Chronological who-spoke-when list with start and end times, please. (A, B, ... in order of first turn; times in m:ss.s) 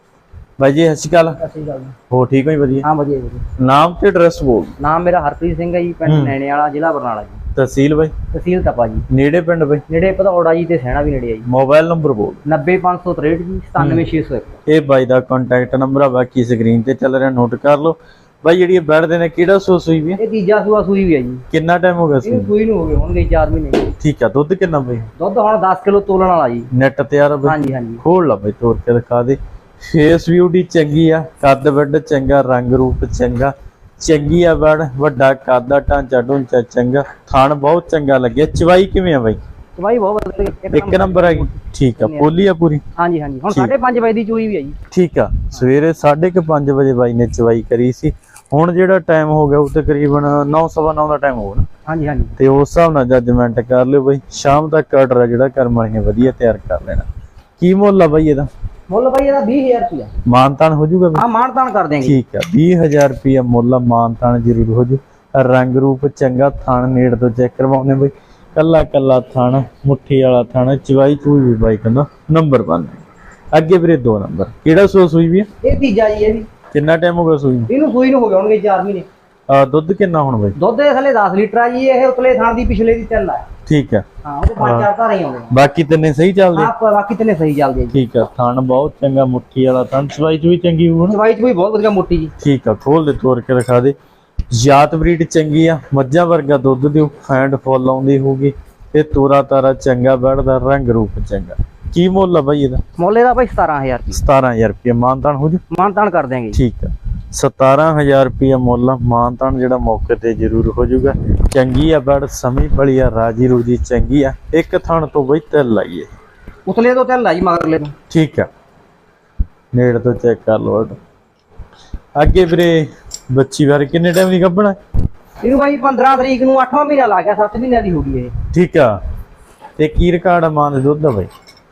0:00.6-0:01.4 A
0:01.4-0:01.9 B
0:02.1-0:02.9 A
0:02.8-0:03.4 B
0:03.6-0:04.8 A
0:04.8-0:07.4 B
0:06.1-0:06.4 A
0:07.6-0:08.1 A
0:08.3-0:09.0 B
0:09.1-0:09.8 A
0:09.9-0:11.4 B
0:11.5-0:12.4 A
0:12.4-0:14.5 B
0:13.8-0:14.0 A
0:14.7-0:20.2 A
0:20.2-0:21.4 B
0:21.5-0:22.5 A
0:22.2-0:23.9 B
0:24.0-0:25.1 A
0:25.2-0:26.7 B
0:26.7-0:39.4 A
0:27.4-0:28.0 B
0:39.8-0:42.3 B
0:40.7-0:42.8 A
0:43.0-0:44.8 B
0:44.9-0:51.7 A
0:51.9-0:52.4 B
0:52.4-0:57.1 A
0:57.6-0:58.5 A
0:58.9-1:00.1 B
1:00.3-1:01.2 A
1:01.2-1:02.2 B
1:02.0-1:15.5 A
1:15.6-1:16.5 B
1:16.7-1:17.7 A
1:17.7-1:19.1 B
1:19.5-1:20.6 A
1:20.6-1:23.4 B
1:23.7-1:24.0 A
1:24.2-1:25.6 B
1:24.6-1:24.9 A
1:25.5-1:26.7 A
1:26.6-1:28.0 B
1:27.9-1:31.2 A
1:31.1-1:32.3 B
1:32.4-1:34.0 A
1:34.5-1:42.8 A
1:43.0-1:44.2 B
1:44.1-1:45.6 A
1:45.7-1:46.6 B
1:46.5-1:56.1 A
1:56.7-1:57.9 B
1:58.1-1:58.5 A
1:59.7-2:01.0 A
2:02.2-2:04.8 A
2:05.4-2:08.4 B
2:08.5-2:09.0 A
2:09.8-2:11.3 A